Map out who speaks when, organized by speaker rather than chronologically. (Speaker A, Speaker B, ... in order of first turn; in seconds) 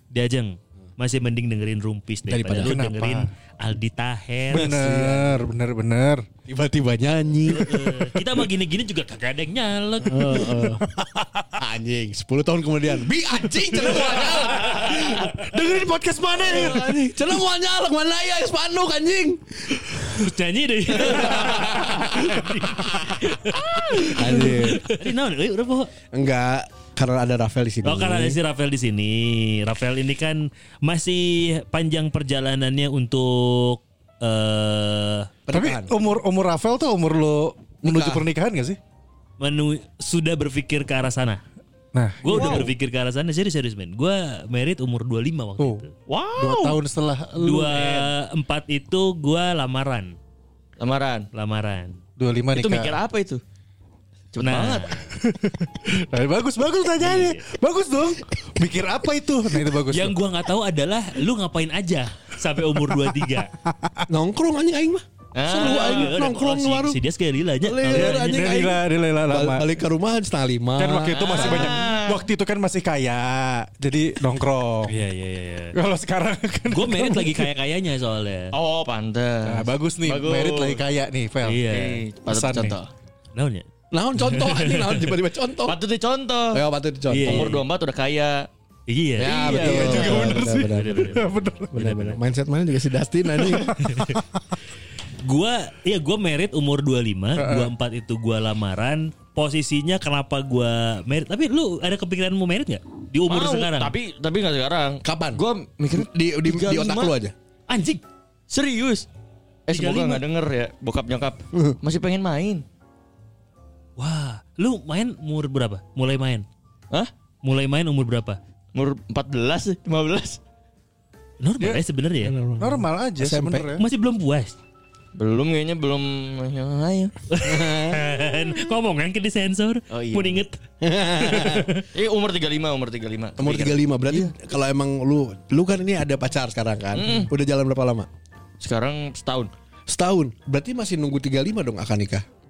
Speaker A: 0.1-4.7, 7.5-10.6, 20.0-25.9, 27.8-35.3, 39.4-41.4, 42.2-45.9, 47.4-50.1, 51.3-52.0, 54.4-55.1, 57.0-57.4, 59.9-63.5, 65.5-68.6, 74.9-75.7, 76.7-78.5, 81.4-82.0, 83.3-83.7, 84.2-85.1, 87.1-87.6, 88.9-92.2, 93.8-94.2, 95.2-103.9, 107.7-108.0, 109.7-110.2, 114.0-116.5, 117.4-118.4, 121.4-122.3, 123.8-124.5, 127.3-130.6, 131.2-131.8
Speaker B: 2.3-2.8, 4.5-5.5, 6.5-8.2, 10.0-10.8, 11.6-15.5, 16.4-20.3, 20.9-23.3, 24.0-24.9, 26.1-28.4, 35.5-35.9, 37.8-38.2, 64.1-67.0, 67.6-71.8, 83.9-85.8, 86.5-87.5, 89.2-93.7, 105.0-105.4, 105.9-107.3, 122.2-123.7, 127.4-128.1, 130.8-131.7, 133.4-138.1, 139.9-142.2
Speaker C: 2.6-3.3, 4.5-6.2, 10.5-11.4, 13.7-17.0, 35.5-38.8, 41.9-42.7, 45.6-45.8, 46.4-48.1, 52.2-53.0, 55.1-60.2, 63.6-64.0, 67.8-69.7, 70.8-74.9, 75.7-77.5, 79.4-81.6, 82.3-82.8, 89.4-91.7, 93.3-94.2, 97.4-97.7, 122.6-123.8
Speaker D: 42.3-42.7, 46.1-46.8, 50.8-51.3, 52.5-53.4, 54.3-55.0, 65.3-66.2, 71.1-72.2, 78.5-80.8, 81.7-82.9, 85.7-86.6, 87.2-88.5, 89.2-90.4, 103.3-107.1, 108.5-109.1, 109.7-112.6, 118.7-120.4, 125.1-127.1, 129.9-130.4, 131.9-134.3, 136.9-137.3, 138.6-139.5